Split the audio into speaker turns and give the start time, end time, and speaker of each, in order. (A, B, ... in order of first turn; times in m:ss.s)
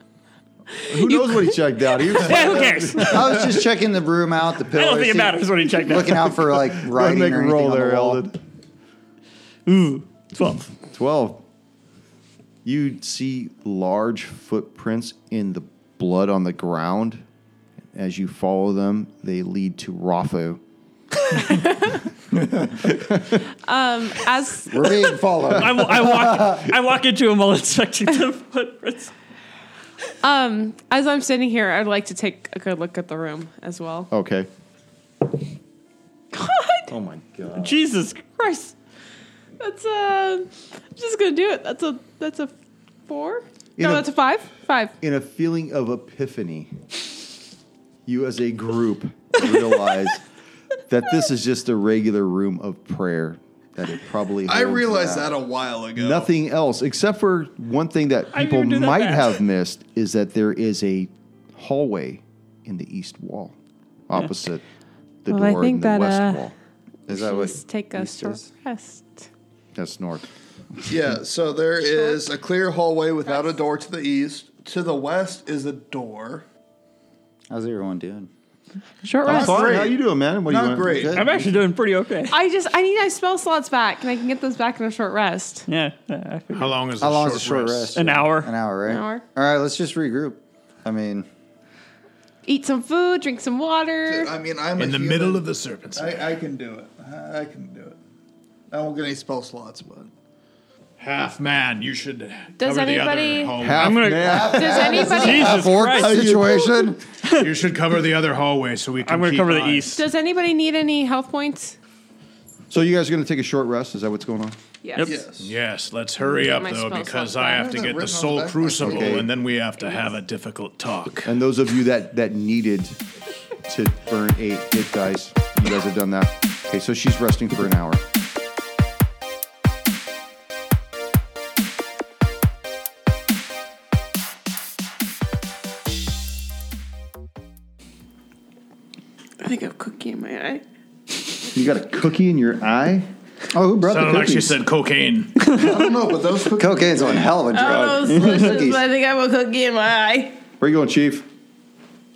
0:00.9-0:02.2 A
0:00.9-0:03.6 B
0:02.2-0:03.3 C
0:03.0-0:08.2 D
0:04.7-0:06.6 C
0:06.8-0:08.4 B
0:09.7-0:10.7 C
0:10.9-0:11.4 B
0:12.6-0:17.2 B
0:17.9-0:20.6 B
0:21.3-0:22.0 A
0:22.8-0:23.4 B
0:23.6-0:25.1 A
0:24.7-0:26.6 D
0:25.5-0:29.1 C
0:30.2-0:34.1 A
0:34.1-0:34.5 B
0:36.3-0:36.9 A
0:36.9-0:37.8 B
0:37.6-0:38.8 C
0:39.6-0:42.5 A
0:43.1-0:44.9 A
0:43.8-0:44.1 B
0:45.0-0:46.7 B
0:48.1-0:50.2 B
0:50.9-0:55.3 B
0:54.5-0:56.3 E
0:56.0-1:03.6 B
0:58.3-0:59.4 C
1:04.1-1:04.6 B
1:05.2-1:06.5 B
1:05.3-1:06.4 A
1:07.1-1:08.5 D
1:07.1-1:09.3 A
1:09.8-1:10.2 B
1:10.9-1:16.4 E
1:11.8-1:12.2 A
1:17.5-1:18.3 D
1:19.0-1:19.9 A
1:19.2-1:21.2 E
1:19.2-1:21.1 B
1:20.8-1:21.6 D
1:21.1-1:22.3 C
1:22.3-1:25.7 A
1:25.7-1:26.8 C
1:26.5-1:27.9 F
1:27.0-1:31.3 D
1:27.9-1:28.5 C
1:28.9-1:29.2 A
1:32.4-1:34.3 A
1:34.1-1:38.0 E
1:34.8-1:36.3 F
1:38.7-1:40.1 E
1:41.0-1:44.2 F
1:42.6-1:43.6 A
1:43.6-1:44.9 B
1:43.8-1:46.3 C
1:44.3-1:45.6 A
1:44.3-1:45.2 E
1:44.8-1:47.0 D
1:46.0-1:46.9 B
1:47.2-1:47.5 C
1:47.4-1:50.0 F
1:49.0-1:50.0 C
1:49.9-1:51.8 A
1:52.7-1:54.6 B
1:54.8-1:55.2 A
1:55.0-1:55.5 E
1:55.4-2:01.3 F
1:56.4-1:57.9 A
1:57.5-1:59.3 E
1:58.8-1:59.3 B
2:01.3-2:03.0 B
2:03.6-2:08.0 B
2:19.4-2:20.6 A
2:21.5-2:23.1 B
2:23.5-2:24.5 D
2:23.8-2:25.5 F
2:25.5-2:27.4 E
2:26.6-2:28.8 D
2:27.5-2:30.4 A
2:30.6-2:31.3 B